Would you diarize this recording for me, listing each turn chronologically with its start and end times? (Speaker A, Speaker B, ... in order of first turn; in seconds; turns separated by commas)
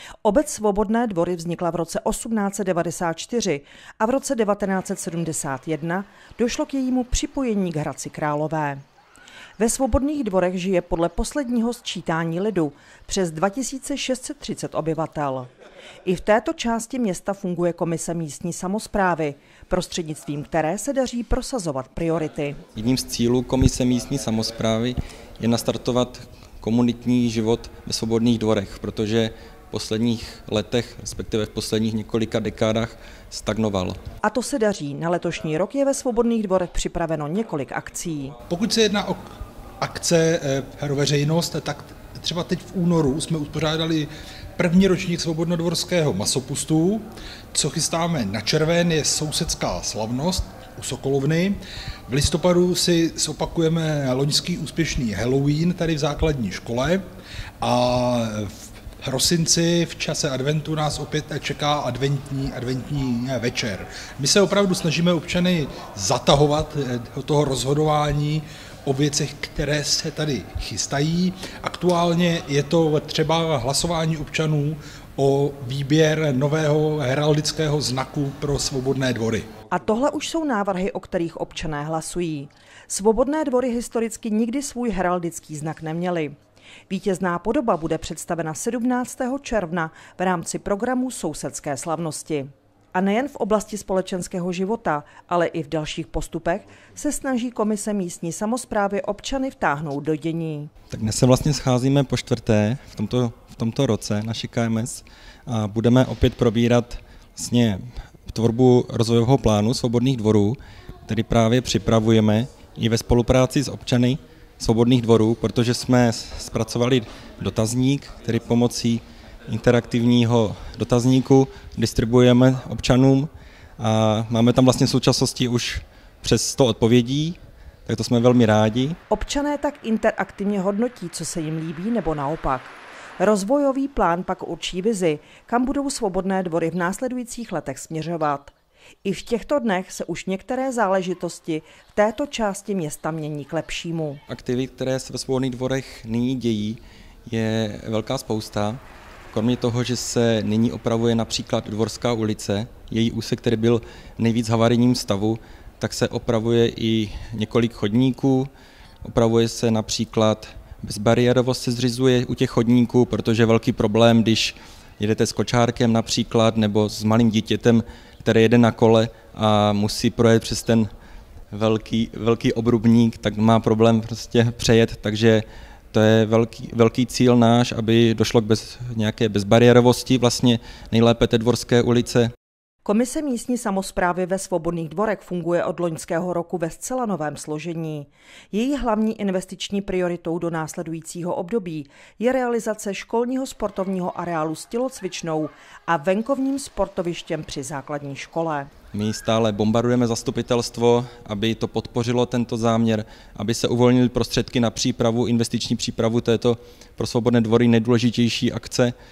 Speaker A: 0.2-8.8, Speaker A: 9.6-15.5, Speaker A: 16.0-22.6, Speaker B: 22.7-34.0, Speaker A: 34.2-38.3, Speaker C: 38.5-39.2, Speaker C: 39.8-47.0, Speaker C: 47.5-51.5, Speaker C: 52.1-57.0, Speaker C: 57.6-79.2, Speaker A: 79.7-86.3, Speaker A: 86.9-100.7, Speaker B: 100.9-129.0, Speaker A: 129.1-144.2, Speaker B: 144.3-148.8, Speaker B: 149.3-158.5, Speaker B: 159.0-170.9, Speaker B: 171.5-182.3, Speaker A: 182.8-198.7, Speaker B: 198.9-208.9